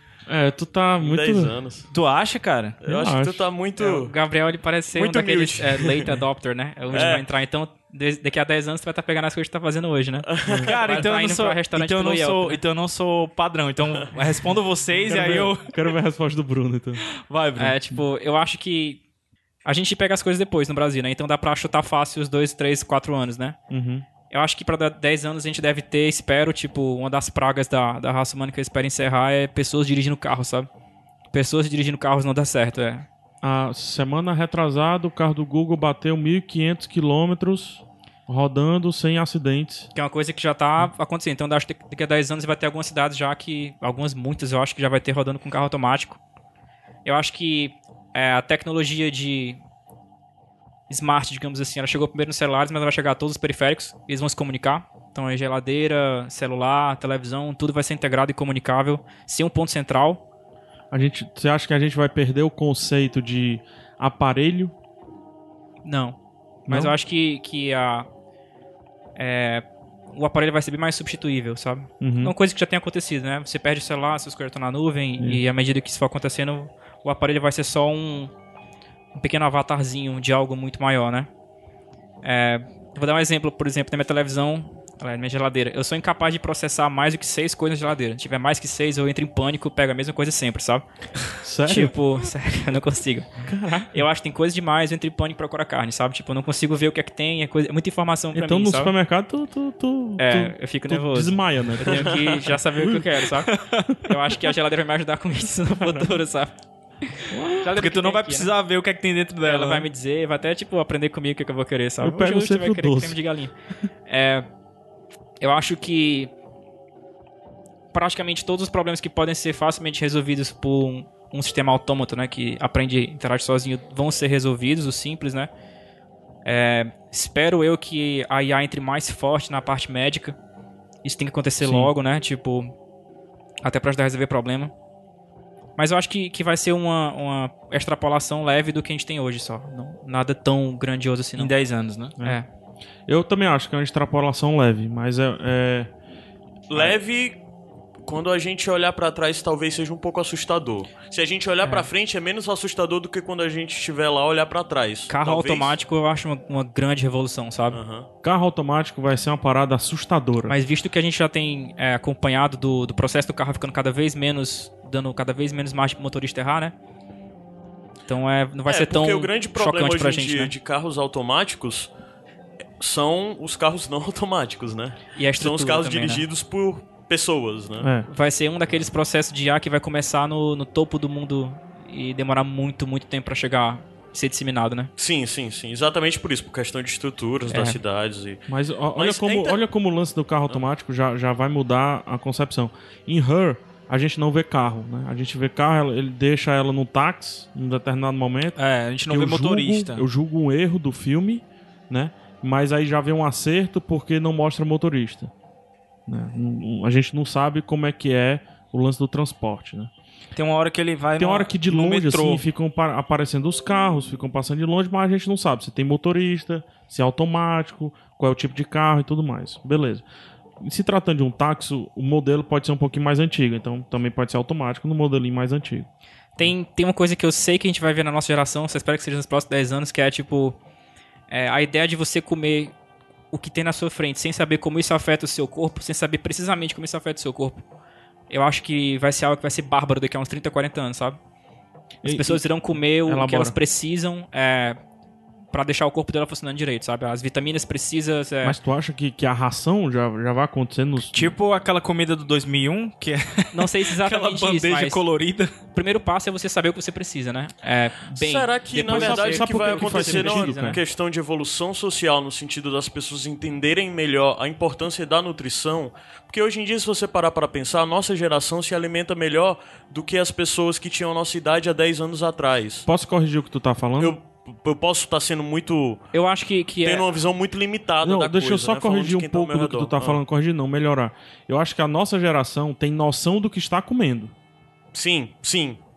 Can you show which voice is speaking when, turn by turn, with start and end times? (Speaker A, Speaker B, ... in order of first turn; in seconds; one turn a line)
Speaker A: 0.3-1.6
Speaker B: 1.0-1.9
Speaker C: 1.9-2.8
Speaker B: 2.8-4.1
Speaker A: 2.9-3.5
Speaker D: 3.8-12.6
Speaker B: 4.9-6.1
Speaker B: 6.9-7.2
Speaker B: 10.3-10.7
Speaker C: 10.6-15.7
Speaker A: 15.1-17.0
Speaker C: 17.2-17.8
Speaker D: 17.6-19.0
Speaker D: 19.6-23.6
Speaker A: 23.7-24.1
Speaker D: 24.2-30.7
Speaker D: 31.3-33.0
Speaker A: 33.4-39.9
Speaker D: 39.9-46.2
Speaker D: 47.0-49.6
Speaker D: 50.9-60.2
Speaker A: 60.9-64.7
Speaker D: 65.8-68.1
Speaker A: 66.7-66.9
Speaker D: 69.2-78.3
Speaker A: 72.0-72.3
Speaker D: 79.1-81.3
Speaker D: 82.2-90.8
Speaker A: 91.4-91.9
Speaker D: 91.7-93.3
Speaker A: 93.5-93.9
Speaker D: 93.9-98.9
Speaker A: 98.3-103.2
Speaker D: 100.2-106.5
Speaker B: 101.9-102.3
Speaker C: 103.5-103.9
Speaker A: 105.8-106.1
Speaker D: 107.1-108.5
Speaker A: 107.3-107.7
Speaker C: 107.7-109.9
Speaker D: 109.4-113.5
Speaker A: 112.0-113.2
Speaker D: 114.1-114.5
Speaker D: 115.4-116.3
Speaker D: 117.9-125.5
Speaker D: 126.4-130.3
Speaker D: 131.0-132.7
Speaker A: 131.6-131.9
Speaker D: 133.6-134.7
Speaker D: 135.8-141.5
Speaker C: 141.4-142.1
Speaker D: 142.2-142.4
Speaker A: 143.1-145.9
Speaker B: 146.7-147.4
Speaker B: 148.0-155.7
Speaker D: 155.1-157.8
Speaker B: 157.7-158.1
Speaker A: 158.2-160.5
Speaker D: 160.5-166.7
Speaker D: 168.1-170.5
Speaker B: 168.7-171.9
Speaker B: 172.8-177.9
Speaker D: 175.2-176.3
Speaker A: 177.8-178.1
Speaker D: 178.1-184.9
Speaker B: 185.0-188.4
Speaker D: 187.5-187.8
Speaker A: 188.5-205.3
Speaker B: 188.9-189.6
Speaker C: 198.6-200.1
Speaker A: 206.1-209.9
Speaker C: 210.3-212.4
Speaker A: 211.2-220.0
Speaker A: 220.6-225.9
Speaker D: 226.4-230.6
Speaker D: 231.3-232.7
Speaker D: 233.3-237.6
Speaker D: 238.3-241.2
Speaker A: 242.0-242.4
Speaker D: 242.0-244.8
Speaker A: 243.0-243.6
Speaker D: 245.5-248.6
Speaker A: 248.4-251.3
Speaker C: 251.1-255.5
Speaker D: 253.5-255.0
Speaker D: 255.7-260.8
Speaker B: 258.1-272.9
Speaker A: 258.8-260.8
Speaker A: 272.8-274.1
Speaker B: 274.0-276.0
Speaker D: 276.1-277.1
Speaker B: 276.8-280.2
Speaker A: 278.0-284.3
Speaker B: 284.9-285.8